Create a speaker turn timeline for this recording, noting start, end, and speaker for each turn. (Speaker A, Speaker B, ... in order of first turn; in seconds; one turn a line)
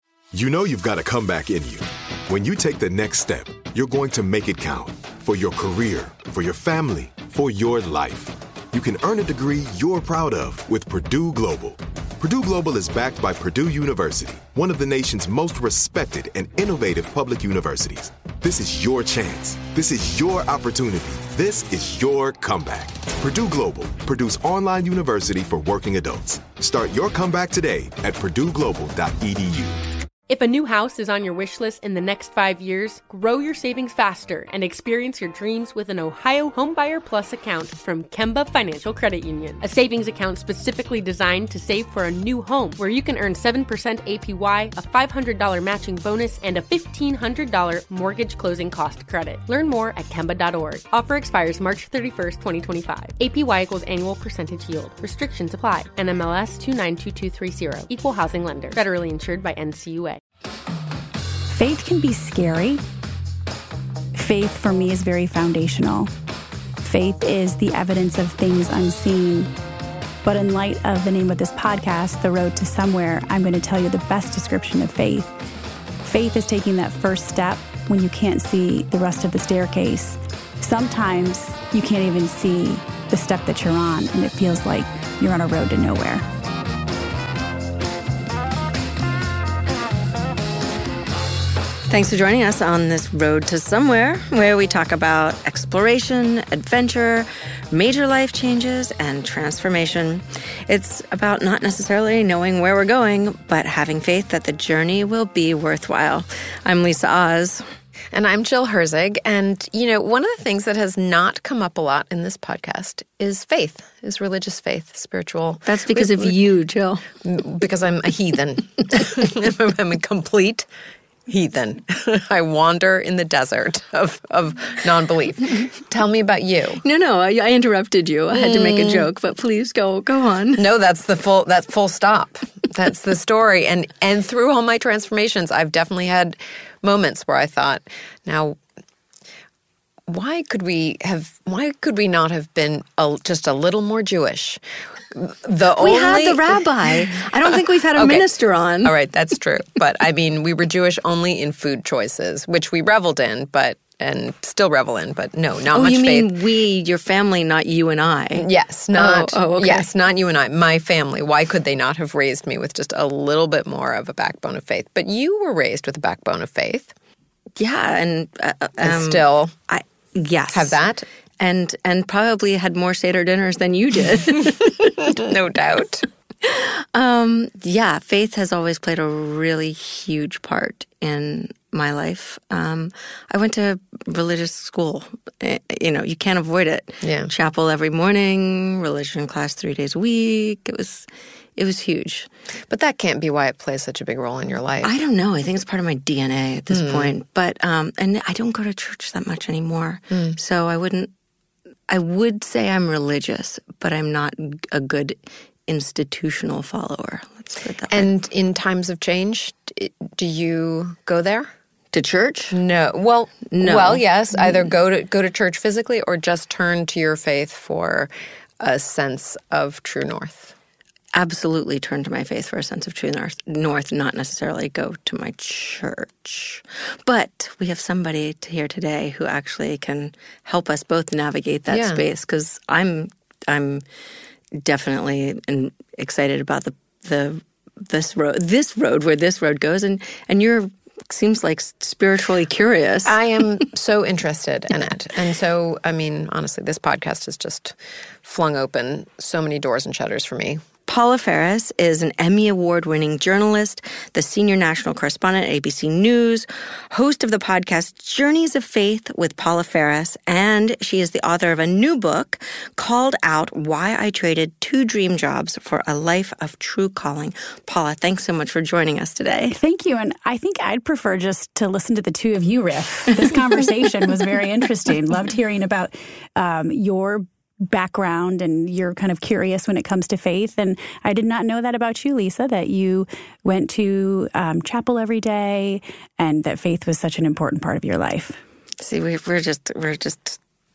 Speaker A: 0.3-29.8
Speaker B: 30.3-60.2
Speaker C: 61.5-62.8
Speaker C: 64.1-66.1
Speaker C: 66.8-69.5
Speaker C: 70.2-75.3
Speaker C: 76.0-86.2
Speaker D: 91.9-107.6
Speaker E: 108.1-116.4
Speaker D: 115.7-117.0
Speaker E: 117.2-120.7
Speaker E: 121.3-126.8
Speaker D: 126.8-130.6
Speaker E: 128.3-129.1
Speaker E: 130.6-138.6
Speaker E: 140.1-144.6
Speaker E: 145.1-156.3
Speaker D: 145.8-148.9
Speaker D: 155.7-159.9
Speaker E: 158.3-166.9
Speaker D: 167.6-170.8
Speaker E: 168.8-169.5
Speaker E: 170.5-171.0
Speaker D: 171.4-175.1
Speaker E: 174.7-176.1
Speaker D: 176.4-192.3
Speaker E: 187.0-187.3
Speaker E: 192.7-194.9
Speaker D: 194.8-201.1
Speaker E: 196.7-197.1
Speaker E: 200.1-200.4
Speaker D: 201.9-208.1
Speaker E: 207.9-211.5
Speaker D: 211.9-212.6
Speaker E: 212.5-220.5
Speaker D: 213.5-214.6
Speaker D: 221.1-233.8
Speaker E: 231.7-232.0
Speaker D: 234.5-243.2
Speaker E: 243.0-250.6
Speaker D: 250.9-269.6
Speaker C: 269.5-288.4
Speaker D: 288.8-290.4